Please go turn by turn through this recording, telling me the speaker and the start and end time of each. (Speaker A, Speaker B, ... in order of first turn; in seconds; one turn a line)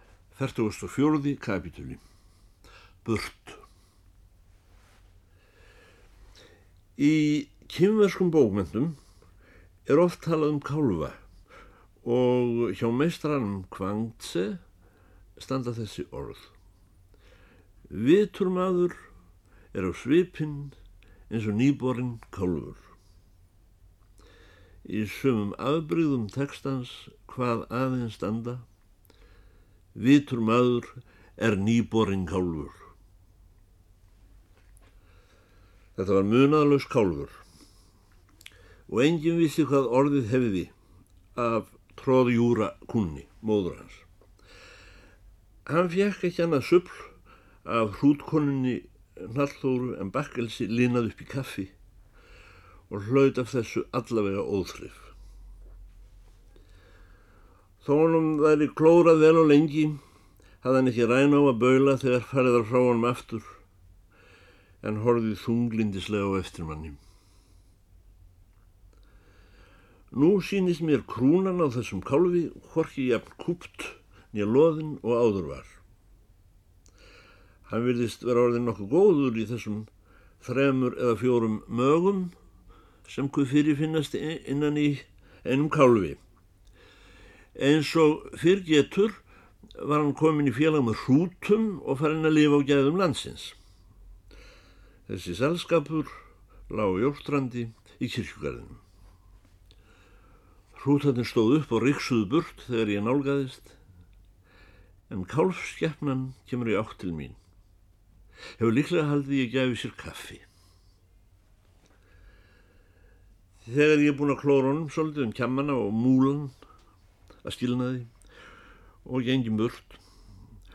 Speaker A: 0.3-2.0
Speaker A: 3.0-3.6
Speaker A: 7.0-9.0
Speaker A: 9.9-11.2
Speaker A: 12.0-14.6
Speaker A: 15.4-16.5
Speaker A: 17.9-19.0
Speaker A: 19.7-20.8
Speaker A: 21.3-22.8
Speaker A: 24.8-28.6
Speaker A: 29.9-32.8
Speaker A: 36.0-37.4
Speaker A: 38.9-40.7
Speaker A: 41.3-44.1
Speaker A: 45.7-51.7
Speaker A: 52.9-55.1
Speaker A: 57.8-60.0
Speaker A: 60.6-63.6
Speaker A: 64.8-67.0
Speaker A: 70.1-75.8
Speaker A: 77.7-79.9
Speaker A: 80.4-82.3
Speaker A: 83.0-86.2
Speaker A: 87.5-89.2
Speaker A: 89.8-93.5
Speaker A: 95.1-96.1
Speaker A: 96.7-98.8
Speaker A: 100.8-103.8
Speaker A: 105.1-107.4
Speaker A: 108.6-110.4
Speaker A: 113.6-116.5
Speaker A: 117.4-118.1
Speaker A: 119.0-120.0